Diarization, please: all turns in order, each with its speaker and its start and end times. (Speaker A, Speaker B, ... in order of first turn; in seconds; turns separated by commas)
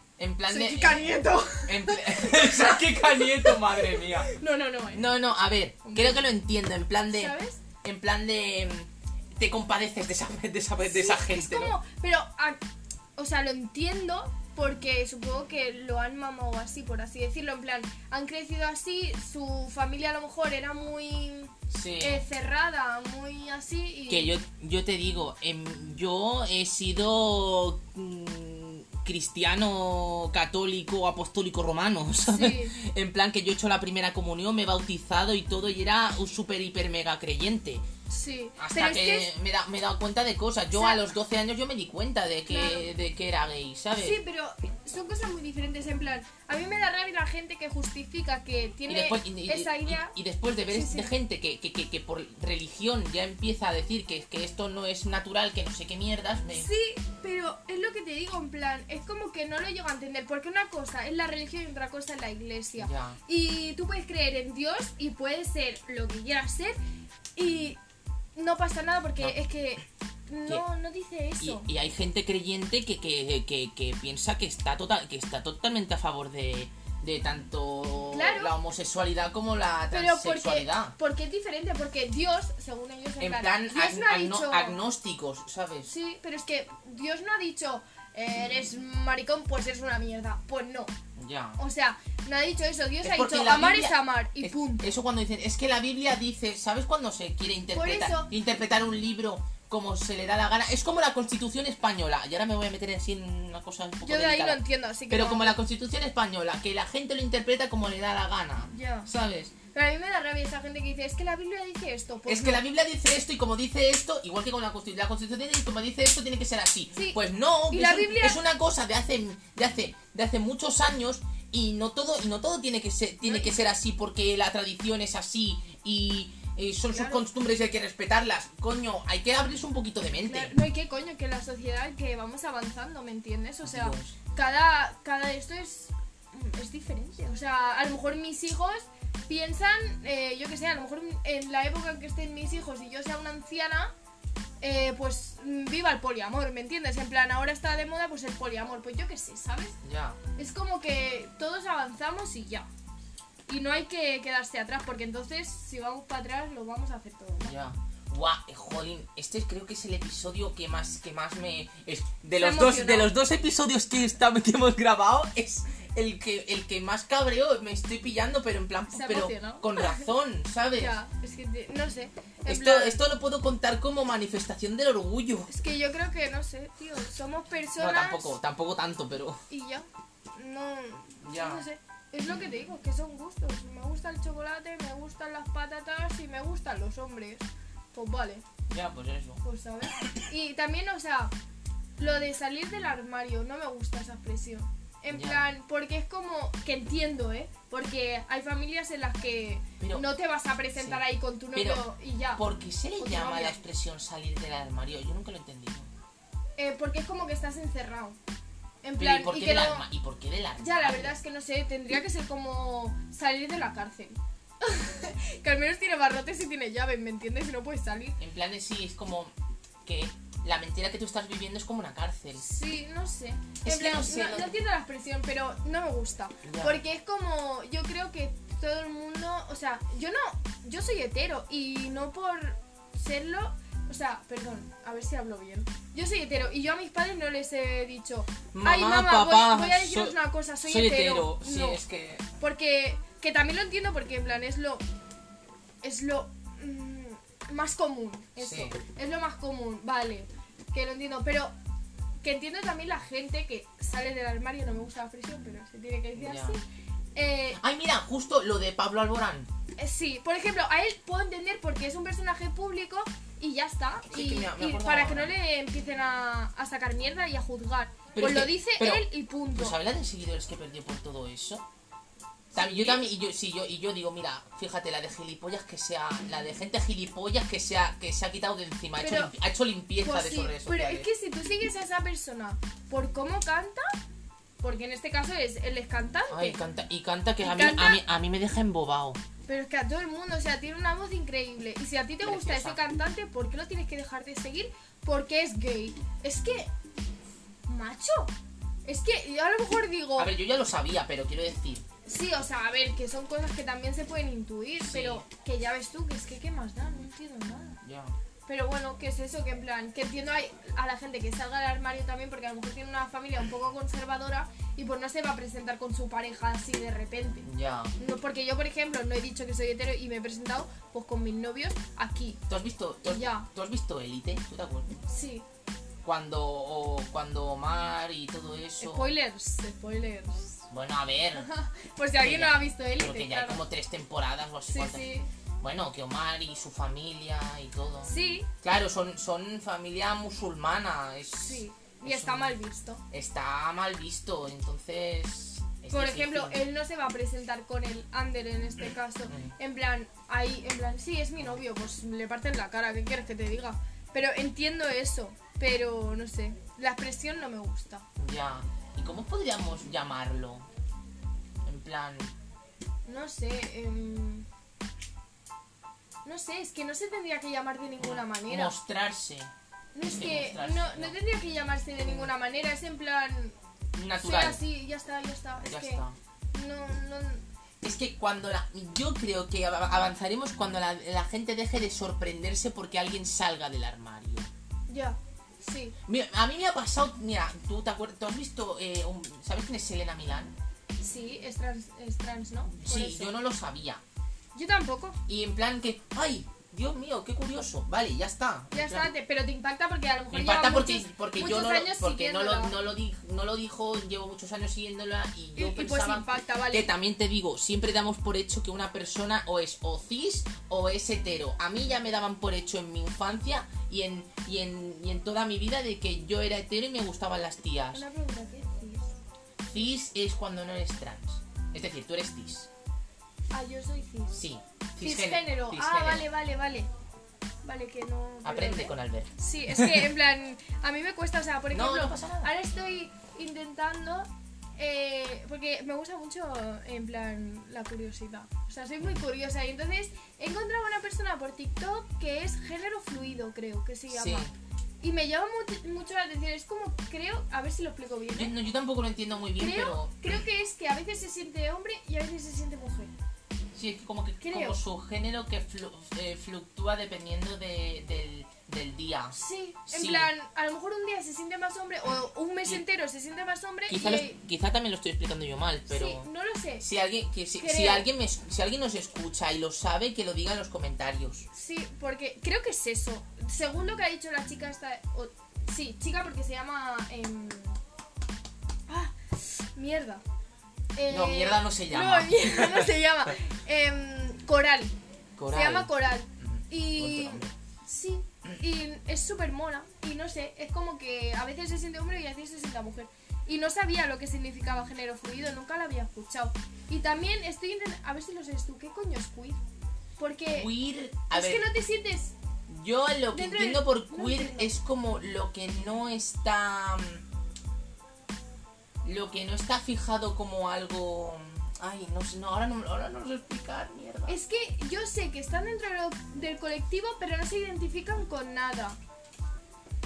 Speaker A: 0.2-4.3, Speaker B: 0.5-5.1, Speaker A: 4.9-11.8, Speaker B: 5.8-6.2, Speaker B: 7.1-7.6, Speaker B: 10.8-12.6, Speaker B: 13.2-24.3, Speaker A: 21.7-22.2, Speaker A: 24.1-37.9, Speaker B: 32.3-32.8, Speaker B: 38.1-39.3, Speaker A: 38.6-44.2, Speaker B: 40.7-41.0, Speaker B: 42.5-42.9, Speaker B: 44.0-50.2, Speaker A: 48.9-56.7, Speaker B: 50.7-51.1, Speaker B: 56.5-66.8, Speaker A: 62.8-63.2, Speaker B: 67.4-67.8, Speaker B: 68.4-71.7, Speaker A: 71.4-81.0, Speaker B: 78.1-78.5, Speaker B: 79.9-84.8, Speaker A: 83.2-85.9, Speaker B: 85.9-90.9, Speaker A: 91.2-91.6, Speaker B: 91.6-94.9, Speaker A: 93.0-109.5, Speaker B: 97.7-98.3, Speaker B: 104.0-105.6, Speaker B: 108.7-109.1, Speaker B: 109.7-112.6, Speaker A: 112.3-130.5, Speaker B: 116.9-118.4, Speaker B: 123.2-123.5, Speaker B: 126.9-127.2, Speaker B: 130.2-143.9, Speaker A: 133.6-134.2, Speaker B: 144.6-149.8, Speaker A: 149.8-150.2, Speaker B: 150.4-152.7, Speaker B: 153.5-157.5, Speaker A: 157.4-171.0, Speaker B: 162.4-163.1, Speaker B: 168.9-170.1, Speaker B: 170.8-173.0, Speaker A: 172.5-175.5, Speaker B: 175.5-178.3, Speaker A: 177.8-179.4, Speaker B: 179.5-188.4, Speaker A: 181.2-181.7, Speaker A: 188.7-189.4, Speaker B: 189.4-191.3, Speaker B: 192.0-202.5, Speaker A: 195.1-195.5, Speaker A: 199.8-200.1, Speaker A: 200.8-205.9, Speaker B: 203.0-203.6, Speaker B: 206.6-208.2, Speaker B: 208.8-209.9, Speaker A: 209.0-211.2, Speaker B: 210.6-218.2, Speaker A: 218.2-219.3, Speaker A: 219.8-222.4, Speaker B: 222.3-241.8, Speaker A: 223.6-224.6, Speaker A: 226.4-226.8, Speaker A: 238.5-242.3, Speaker B: 242.4-244.8, Speaker B: 245.8-251.5, Speaker A: 248.4-248.8, Speaker B: 252.2-256.6, Speaker A: 256.1-256.6, Speaker B: 257.1-257.6, Speaker A: 257.6-259.5, Speaker B: 259.8-269.8, Speaker A: 264.1-265.3, Speaker A: 268.1-271.6, Speaker B: 272.5-273.1, Speaker A: 272.6-281.1, Speaker B: 279.0-279.4, Speaker B: 280.0-283.9, Speaker B: 284.6-286.6, Speaker A: 286.3-289.2, Speaker B: 287.4-288.0, Speaker B: 289.5-296.7, Speaker A: 292.2-292.8, Speaker B: 297.7-298.3, Speaker B: 298.9-300.3, Speaker A: 300.2-301.9, Speaker B: 302.1-307.8, Speaker A: 304.8-305.2, Speaker A: 307.8-308.2, Speaker B: 308.5-322.4, Speaker A: 317.4-317.9, Speaker A: 322.5-325.0, Speaker B: 323.1-323.5, Speaker B: 325.1-325.4, Speaker A: 326.0-329.1, Speaker B: 328.8-330.6, Speaker A: 330.7-331.5, Speaker B: 331.4-333.6, Speaker A: 332.2-335.1, Speaker B: 334.7-335.3, Speaker A: 335.6-342.6, Speaker B: 338.1-338.5, Speaker B: 341.3-343.0, Speaker A: 343.1-346.7, Speaker B: 345.9-358.1, Speaker A: 349.3-349.5, Speaker A: 358.2-360.7, Speaker A: 361.6-362.3, Speaker B: 363.1-364.5, Speaker B: 366.2-368.7, Speaker A: 368.0-369.5, Speaker B: 369.9-373.6, Speaker A: 370.0-371.2, Speaker A: 372.0-372.3, Speaker A: 373.9-374.6, Speaker B: 374.2-377.4, Speaker A: 375.6-376.2, Speaker A: 377.8-384.5, Speaker B: 384.9-385.9, Speaker A: 386.1-390.5, Speaker B: 391.0-393.4, Speaker A: 392.7-394.0, Speaker B: 394.6-395.2, Speaker A: 395.3-399.1, Speaker B: 398.7-402.8, Speaker A: 400.3-418.1, Speaker B: 405.6-406.9, Speaker B: 417.9-419.1, Speaker A: 419.7-422.7, Speaker B: 423.5-424.4, Speaker A: 424.3-426.3, Speaker B: 425.0-426.9, Speaker B: 427.6-444.5, Speaker A: 428.4-430.0, Speaker A: 431.7-432.5, Speaker A: 444.1-444.5, Speaker B: 445.0-448.5, Speaker A: 448.3-450.3, Speaker B: 449.6-453.1, Speaker A: 453.7-459.4, Speaker B: 454.4-454.8, Speaker B: 459.3-464.4, Speaker A: 459.9-460.3, Speaker A: 463.9-466.3, Speaker B: 465.9-466.9, Speaker A: 466.8-471.5, Speaker B: 467.6-468.1, Speaker B: 471.5-477.8, Speaker B: 478.9-480.2, Speaker B: 480.9-484.9, Speaker A: 481.1-483.3, Speaker A: 485.4-487.5, Speaker B: 485.5-499.6, Speaker B: 500.2-500.7, Speaker A: 500.5-501.7, Speaker B: 501.3-502.3, Speaker A: 502.7-507.2, Speaker B: 503.3-504.8, Speaker A: 509.0-514.4, Speaker B: 514.3-519.0